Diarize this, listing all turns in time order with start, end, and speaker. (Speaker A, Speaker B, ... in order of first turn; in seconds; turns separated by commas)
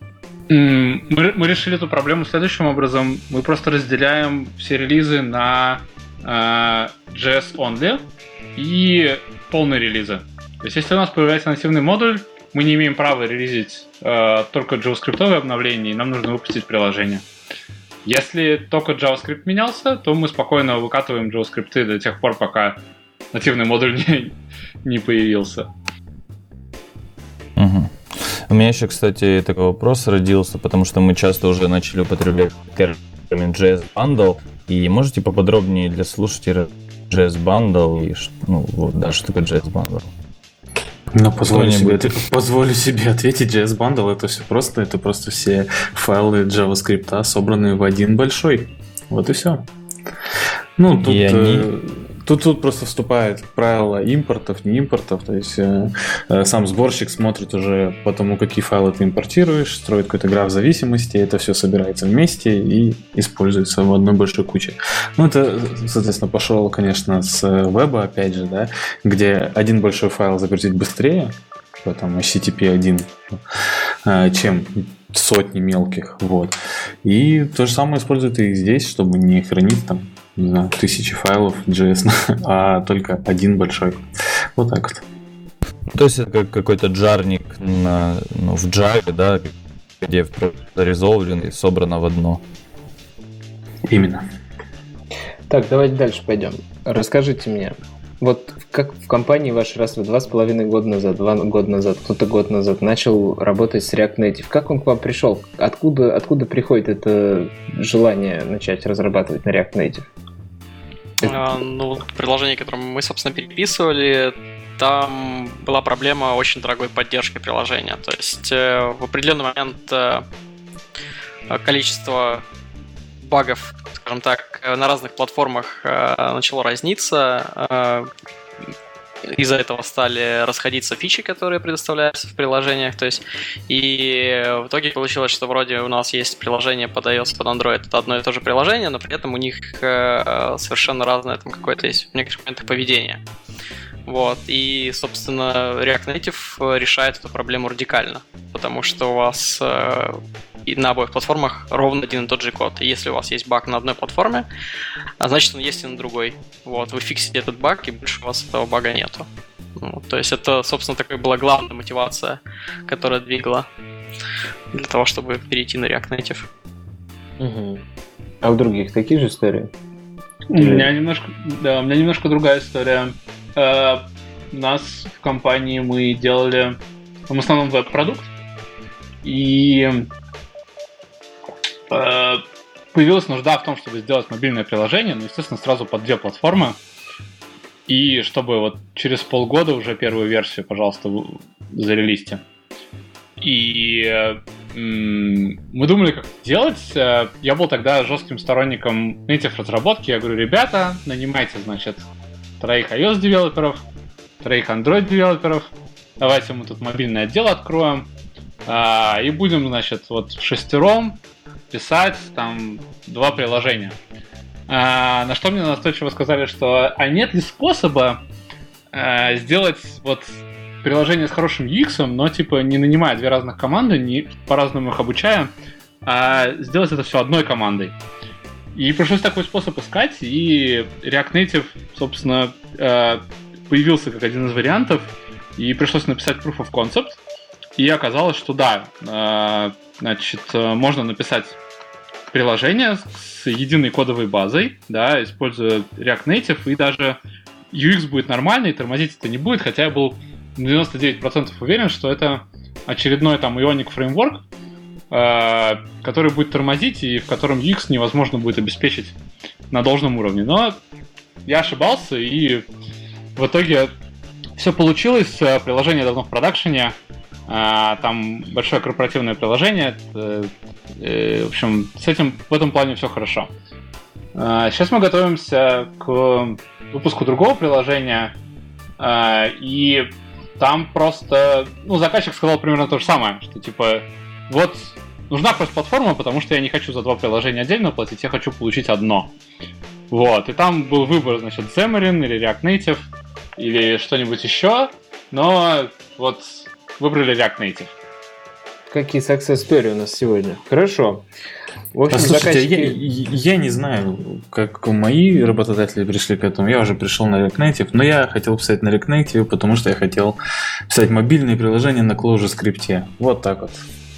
Speaker A: 0.5-8.0, Speaker A: 8.6-17.2, Speaker A: 18.1-22.8, Speaker A: 23.3-25.7, Speaker B: 27.6-40.1, Speaker C: 41.1-49.7, Speaker B: 41.5-42.2, Speaker C: 50.8-73.4, Speaker B: 51.0-51.7, Speaker C: 74.0-85.0, Speaker B: 85.9-92.4, Speaker C: 93.9-94.3, Speaker D: 95.5-110.1, Speaker D: 111.2-111.5, Speaker E: 111.3-120.3, Speaker E: 121.5-122.4, Speaker E: 123.2-128.1, Speaker E: 129.3-143.2, Speaker E: 144.1-154.4, Speaker E: 155.2-159.3, Speaker E: 159.8-163.7, Speaker E: 164.7-166.5, Speaker D: 167.4-167.8, Speaker D: 168.4-169.7, Speaker A: 170.5-178.3, Speaker D: 170.6-170.9, Speaker A: 179.2-180.1, Speaker A: 181.9-186.8, Speaker A: 187.9-192.4, Speaker A: 193.4-202.1, Speaker A: 202.6-203.8, Speaker A: 204.4-208.1, Speaker A: 208.7-211.2, Speaker A: 211.7-213.9, Speaker A: 214.7-218.2, Speaker A: 218.9-225.5, Speaker A: 226.1-227.9, Speaker A: 228.7-237.2, Speaker A: 237.8-241.6, Speaker A: 242.3-247.2, Speaker A: 247.7-254.4, Speaker A: 255.1-259.2, Speaker A: 259.7-260.8, Speaker A: 261.4-262.7, Speaker A: 263.4-263.9, Speaker A: 264.6-266.9, Speaker A: 267.5-273.5, Speaker A: 274.3-278.4, Speaker A: 279.0-289.3, Speaker A: 290.1-297.9, Speaker D: 298.9-301.3, Speaker D: 301.9-303.0, Speaker C: 302.1-310.4, Speaker C: 310.9-313.9